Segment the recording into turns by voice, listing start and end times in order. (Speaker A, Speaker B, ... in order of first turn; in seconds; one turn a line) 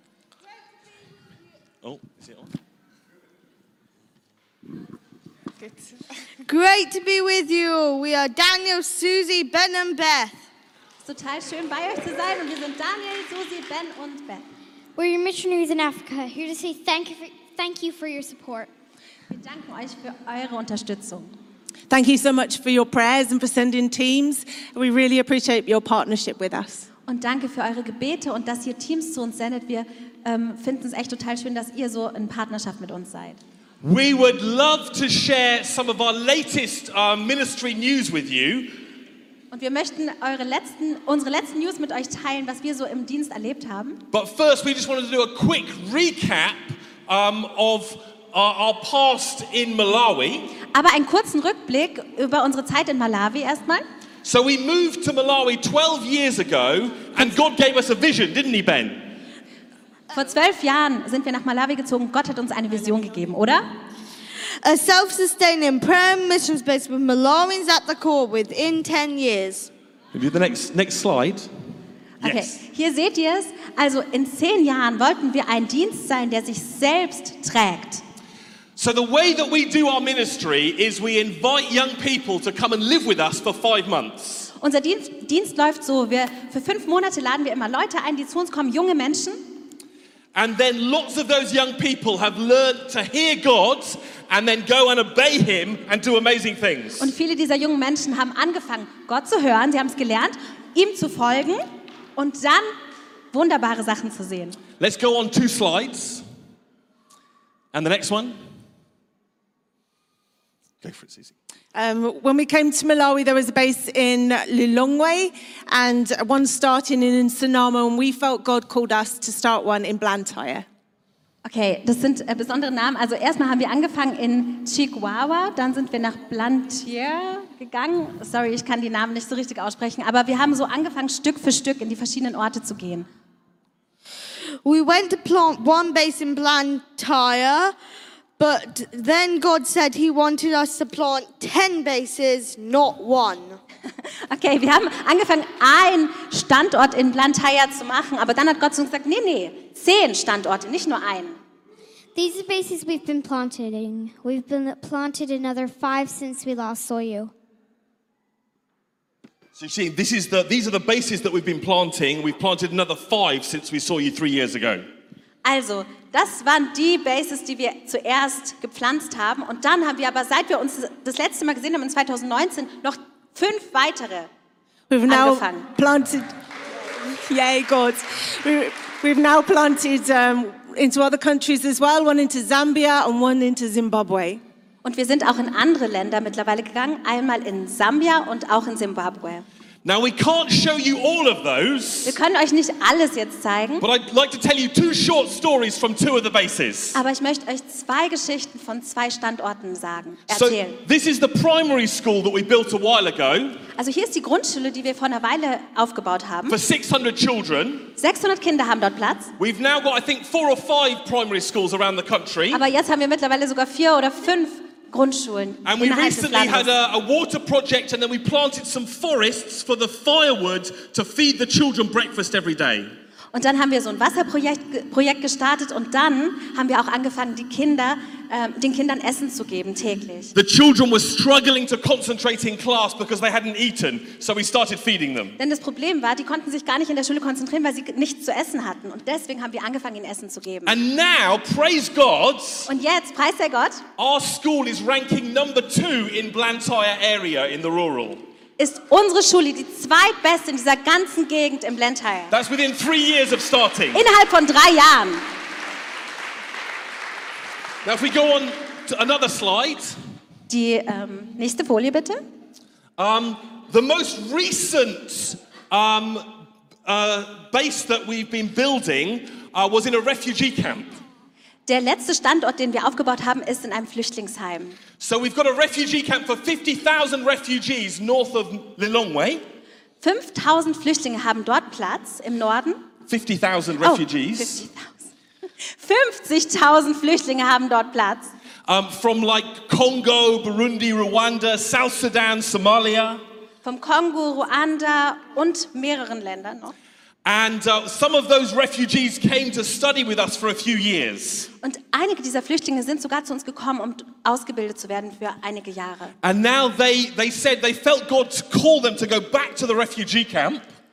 Speaker A: 1.8-2.5
Speaker B: 6.5-10.4
Speaker C: 11.0-14.4
Speaker D: 14.9-18.7
Speaker C: 19.3-21.3
Speaker E: 21.9-26.9
Speaker C: 27.1-33.4
Speaker A: 33.8-38.8
Speaker C: 39.5-44.0
Speaker A: 44.1-50.5
Speaker C: 50.7-53.8
Speaker A: 54.2-59.1
Speaker C: 60.1-63.6
Speaker B: 64.6-69.7
Speaker A: 70.1-71.5
Speaker A: 72.2-72.5
Speaker C: 72.2-78.0
Speaker A: 78.8-84.5
Speaker C: 84.6-89.4
Speaker A: 90.3-97.1
Speaker C: 97.0-101.6
Speaker C: 102.2-102.7
Speaker C: 103.3-104.6
Speaker A: 104.8-106.2
Speaker A: 107.7-108.4
Speaker A: 110.8-111.3
Speaker E: 111.7-120.6
Speaker C: 121.4-133.1
Speaker B: 134.6-137.7
Speaker B: 138.4-143.6
Speaker C: 144.3-151.4
Speaker D: 152.1-157.3
Speaker A: 159.5-164.8
Speaker C: 165.4-174.3
Speaker E: 174.9-176.3
Speaker C: 175.1-175.7
Speaker E: 177.0-184.4
Speaker C: 184.8-189.4
Speaker A: 189.8-192.2
Speaker C: 192.1-193.8
Speaker A: 193.8-197.0
Speaker C: 196.9-200.8
Speaker A: 200.3-203.6
Speaker C: 203.8-206.6
Speaker A: 206.5-207.9
Speaker C: 208.0-209.3
Speaker A: 209.4-212.6
Speaker C: 212.5-216.7
Speaker A: 215.6-222.9
Speaker C: 223.3-230.3
Speaker A: 230.3-235.4
Speaker C: 235.4-240.7
Speaker A: 240.7-242.7
Speaker C: 242.7-243.8
Speaker A: 244.0-248.2
Speaker C: 248.6-252.3
Speaker A: 252.3-254.0
Speaker C: 253.9-255.2
Speaker A: 257.8-260.0
Speaker C: 260.5-262.2
Speaker A: 263.0-271.0
Speaker C: 271.7-274.8
Speaker A: 275.0-279.4
Speaker C: 280.0-282.8
Speaker A: 283.1-284.6
Speaker C: 283.8-285.1
Speaker C: 285.6-288.3
Speaker A: 288.7-293.2
Speaker C: 293.6-296.7
Speaker A: 297.2-301.5
Speaker C: 301.6-306.1
Speaker A: 306.2-310.6